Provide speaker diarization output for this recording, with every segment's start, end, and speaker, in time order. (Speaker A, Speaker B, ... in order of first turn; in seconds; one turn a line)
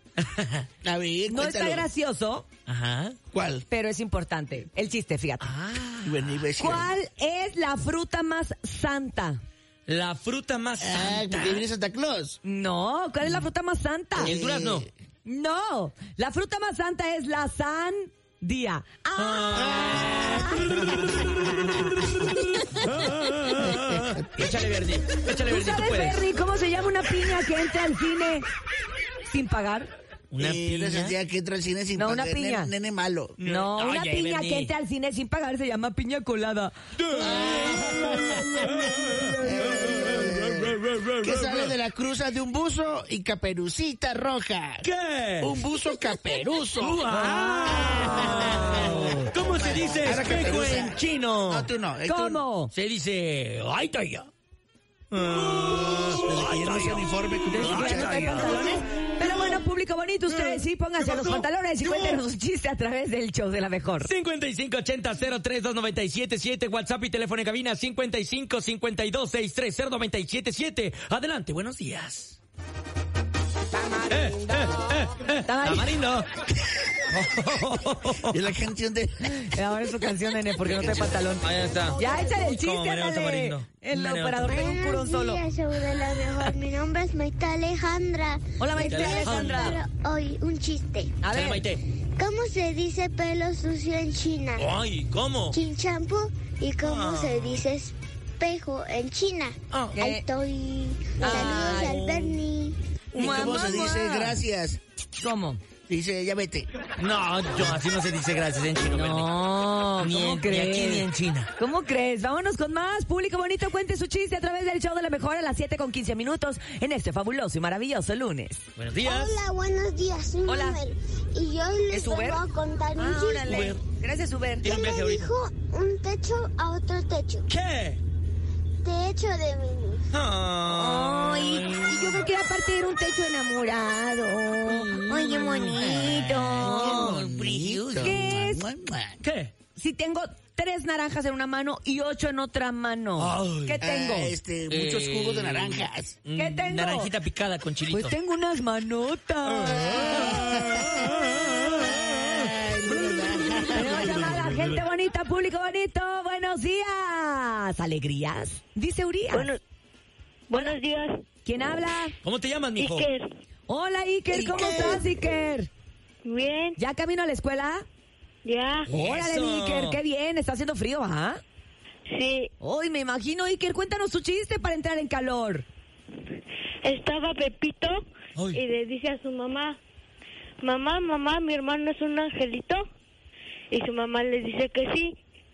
Speaker A: 0.2-0.7
Speaker B: 0.8-1.9
Speaker C: 1.3-2.5
Speaker A: 2.7-3.2
Speaker B: 3.3-3.7
Speaker C: 3.7-5.5
Speaker A: 5.4-6.2
Speaker B: 6.0-6.9
Speaker C: 6.6-9.4
Speaker A: 9.9-11.7
Speaker B: 10.8-12.4
Speaker C: 12.4-14.3
Speaker A: 14.2-14.9
Speaker B: 14.2-14.9
Speaker C: 15.2-20.7
Speaker A: 19.2-21.6
Speaker A: 22.6-26.2
Speaker C: 25.4-28.5
Speaker C: 29.3-29.9
Speaker A: 30.3-31.1
Speaker B: 30.4-33.4
Speaker C: 32.0-32.7
Speaker A: 33.4-34.7
Speaker C: 33.5-36.7
Speaker A: 37.0-41.7
Speaker B: 37.2-38.8
Speaker B: 39.4-44.9
Speaker A: 44.8-45.6
Speaker B: 45.4-47.1
Speaker A: 46.8-51.7
Speaker B: 47.7-52.4
Speaker C: 52.0-52.7
Speaker A: 52.7-54.3
Speaker A: 55.1-58.8
Speaker B: 56.1-58.5
Speaker C: 57.5-64.1
Speaker A: 60.3-62.2
Speaker A: 64.0-72.4
Speaker C: 73.7-75.9
Speaker A: 74.1-76.3
Speaker A: 76.9-78.4
Speaker B: 78.2-79.5
Speaker C: 79.3-85.4
Speaker A: 80.6-84.7
Speaker D: 81.9-82.5
Speaker D: 84.5-91.2
Speaker C: 88.6-89.8
Speaker A: 88.8-89.8
Speaker C: 91.2-91.7
Speaker A: 91.3-91.8
Speaker D: 92.2-94.7
Speaker A: 94.6-95.6
Speaker D: 95.5-102.8
Speaker A: 96.8-97.6
Speaker A: 99.7-100.1
Speaker C: 100.0-100.2
Speaker C: 101.2-102.2
Speaker A: 101.2-102.3
Speaker C: 103.1-104.4
Speaker B: 103.1-104.8
Speaker C: 105.2-105.6
Speaker B: 105.9-106.7
Speaker A: 107.0-109.3
Speaker C: 108.9-111.0
Speaker A: 110.0-111.5
Speaker C: 111.6-118.6
Speaker A: 118.8-119.4
Speaker D: 119.0-123.8
Speaker C: 120.5-120.8
Speaker C: 121.9-122.4
Speaker C: 123.0-124.7
Speaker A: 123.5-123.8
Speaker A: 124.6-125.3
Speaker D: 124.6-127.5
Speaker A: 127.5-128.0
Speaker D: 128.8-130.1
Speaker A: 130.1-132.1
Speaker C: 130.6-137.2
Speaker A: 134.7-135.9
Speaker B: 135.7-139.2
Speaker A: 136.6-138.2
Speaker C: 138.0-138.7
Speaker A: 139.2-139.5
Speaker C: 139.8-144.4
Speaker A: 143.2-143.8
Speaker B: 143.8-146.2
Speaker A: 144.7-148.2
Speaker C: 146.4-147.1
Speaker C: 147.9-150.4
Speaker A: 149.5-152.5
Speaker B: 149.8-154.5
Speaker C: 153.7-159.5
Speaker A: 153.8-154.8
Speaker E: 159.3-159.6
Speaker E: 160.5-161.1
Speaker C: 161.4-162.2
Speaker A: 162.2-163.1
Speaker E: 162.8-163.3
Speaker C: 163.7-165.7
Speaker B: 164.3-165.1
Speaker E: 166.2-166.8
Speaker C: 166.8-167.8
Speaker E: 168.4-168.9
Speaker A: 168.9-170.0
Speaker C: 168.9-171.4
Speaker E: 172.1-172.5
Speaker C: 172.6-175.7
Speaker E: 176.8-178.0
Speaker E: 178.5-179.8
Speaker E: 180.6-182.8
Speaker E: 183.7-185.2